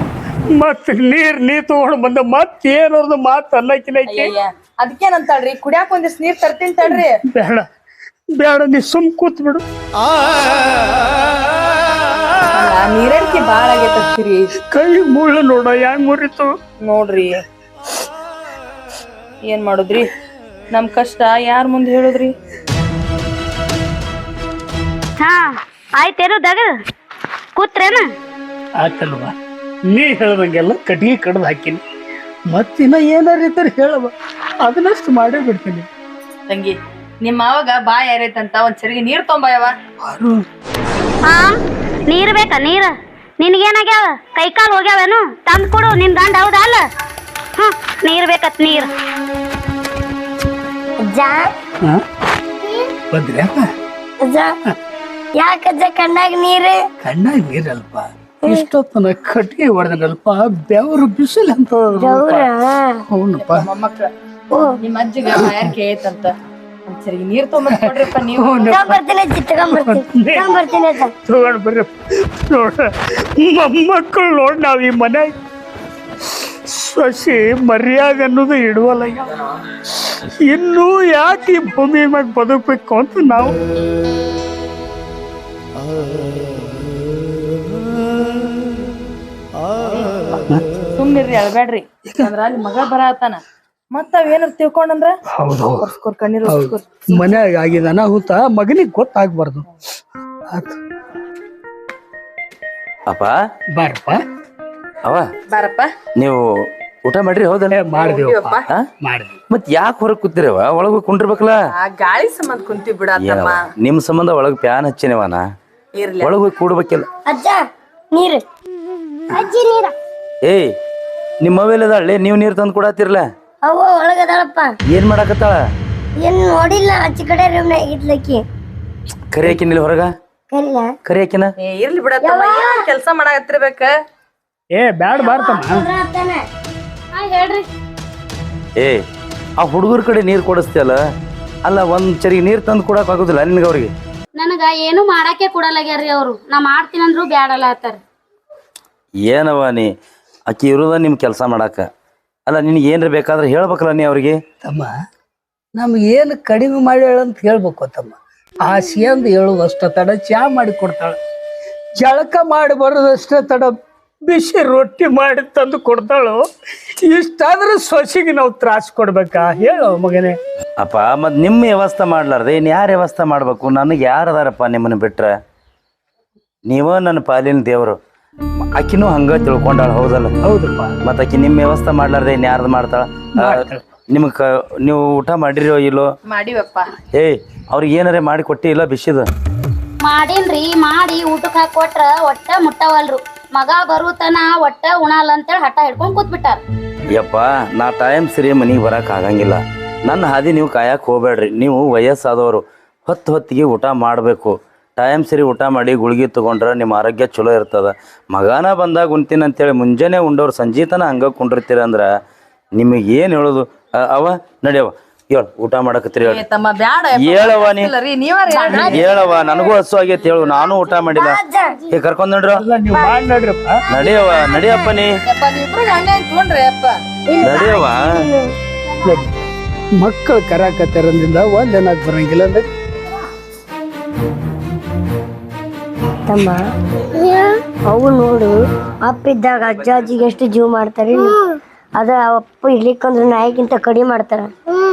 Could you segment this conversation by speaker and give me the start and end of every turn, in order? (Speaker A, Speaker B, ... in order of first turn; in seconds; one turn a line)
Speaker A: 0.5-4.3
Speaker B: 4.1-7.1
Speaker A: 6.8-7.7
Speaker A: 8.3-9.6
Speaker B: 12.5-14.4
Speaker A: 14.6-16.5
Speaker B: 16.8-17.4
Speaker B: 19.5-20.0
Speaker B: 20.7-22.3
Speaker C: 25.2-26.7
Speaker C: 27.6-28.1
Speaker A: 28.8-29.4
Speaker A: 29.9-31.8
Speaker A: 32.5-35.9
Speaker B: 36.5-39.7
Speaker A: 40.0-40.4
Speaker C: 41.2-41.5
Speaker C: 42.1-46.8
Speaker C: 47.5-48.9
Speaker D: 51.0-51.5
Speaker A: 53.1-53.7
Speaker D: 54.2-54.5
Speaker D: 55.4-56.8
Speaker A: 57.0-62.5
Speaker D: 61.9-63.0
Speaker A: 63.1-63.7
Speaker B: 63.4-64.1
Speaker B: 64.9-66.3
Speaker A: 65.3-65.7
Speaker B: 66.9-68.6
Speaker A: 67.7-68.9
Speaker D: 68.6-71.1
Speaker A: 69.7-70.5
Speaker A: 71.2-75.4
Speaker A: 76.2-83.5
Speaker B: 89.8-90.3
Speaker B: 90.9-93.4
Speaker A: 92.0-92.3
Speaker B: 93.9-95.1
Speaker A: 95.3-95.9
Speaker B: 95.8-97.3
Speaker A: 96.4-99.7
Speaker A: 100.5-100.8
Speaker E: 103.1-103.3
Speaker A: 103.8-104.2
Speaker B: 105.5-105.9
Speaker E: 106.2-106.4
Speaker E: 107.0-107.8
Speaker A: 107.7-109.3
Speaker B: 108.0-108.5
Speaker E: 109.5-111.6
Speaker B: 111.8-113.5
Speaker E: 113.2-115.4
Speaker B: 116.0-116.2
Speaker E: 116.2-117.0
Speaker D: 117.2-117.6
Speaker D: 118.1-118.4
Speaker D: 119.3-119.9
Speaker E: 120.4-120.7
Speaker E: 121.4-123.2
Speaker D: 123.6-124.7
Speaker E: 124.9-125.6
Speaker D: 126.2-128.4
Speaker E: 129.3-130.1
Speaker D: 130.5-130.9
Speaker E: 131.0-131.5
Speaker B: 131.6-133.9
Speaker D: 132.2-132.8
Speaker A: 134.7-135.9
Speaker D: 135.1-136.4
Speaker C: 137.1-137.7
Speaker E: 139.6-141.0
Speaker E: 141.7-143.9
Speaker C: 144.3-148.0
Speaker E: 149.3-149.9
Speaker E: 150.5-151.8
Speaker E: 152.5-154.4
Speaker A: 154.6-154.9
Speaker A: 155.7-161.2
Speaker A: 161.9-166.4
Speaker A: 166.9-170.4
Speaker E: 170.8-175.3
Speaker E: 176.7-178.0
Speaker E: 178.7-180.3
Speaker A: 180.4-180.9
Speaker E: 181.0-183.6
Speaker A: 183.4-183.9
Speaker E: 184.1-186.1
Speaker B: 186.3-186.9
Speaker E: 187.1-189.2
Speaker C: 190.0-196.6
Speaker E: 197.1-212.1
Speaker E: 212.8-216.4
Speaker B: 216.2-219.0
Speaker E: 217.2-217.9
Speaker C: 218.5-218.9
Speaker E: 218.8-221.4
Speaker D: 221.0-221.8
Speaker E: 221.9-222.6
Speaker A: 222.6-223.8
Speaker E: 223.9-225.2
Speaker D: 224.3-224.8
Speaker B: 225.3-226.9
Speaker D: 227.3-228.5
Speaker E: 227.4-228.1
Speaker A: 230.0-232.7
Speaker D: 236.3-236.6
Speaker D: 237.2-241.4
Speaker D: 242.0-244.5